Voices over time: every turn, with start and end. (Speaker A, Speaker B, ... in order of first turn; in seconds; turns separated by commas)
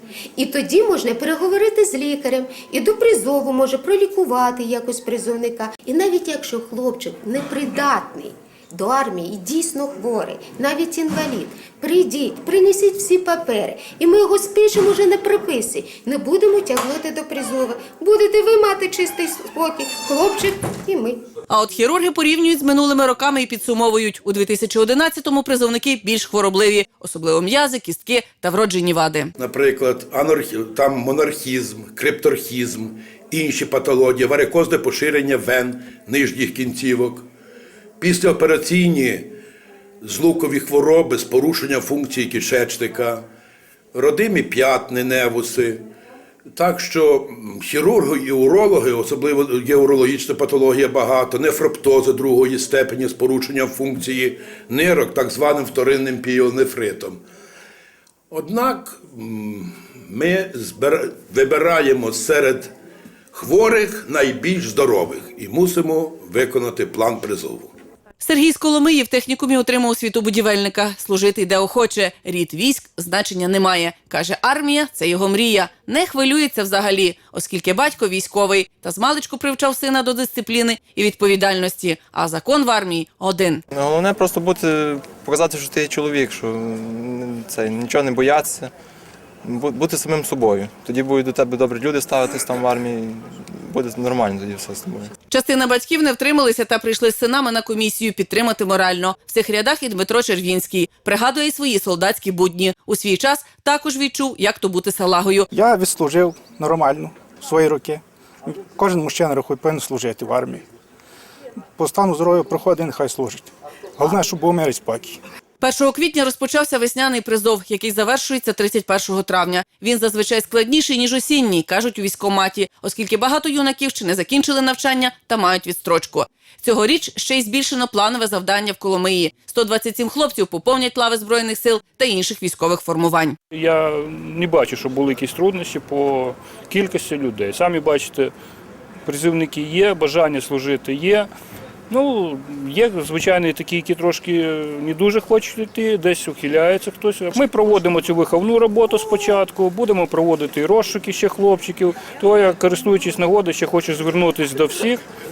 Speaker A: 0.3-21.2, Speaker B: 21.5-29.3, Speaker C: 29.4-37.2, Speaker C: 38.0-39.3, Speaker C: 40.0-43.2, Speaker C: 43.9-45.8, Speaker C: 46.5-57.2, Speaker C: 58.3-62.7, Speaker C: 63.3-67.7, Speaker B: 68.2-83.6, Speaker D: 83.7-88.7, Speaker D: 89.4-95.1, Speaker B: 95.3-105.5, Speaker E: 105.5-110.6, Speaker E: 111.8-115.2, Speaker B: 115.6-133.4, Speaker F: 133.5-138.3, Speaker F: 139.1-141.3, Speaker F: 141.9-155.0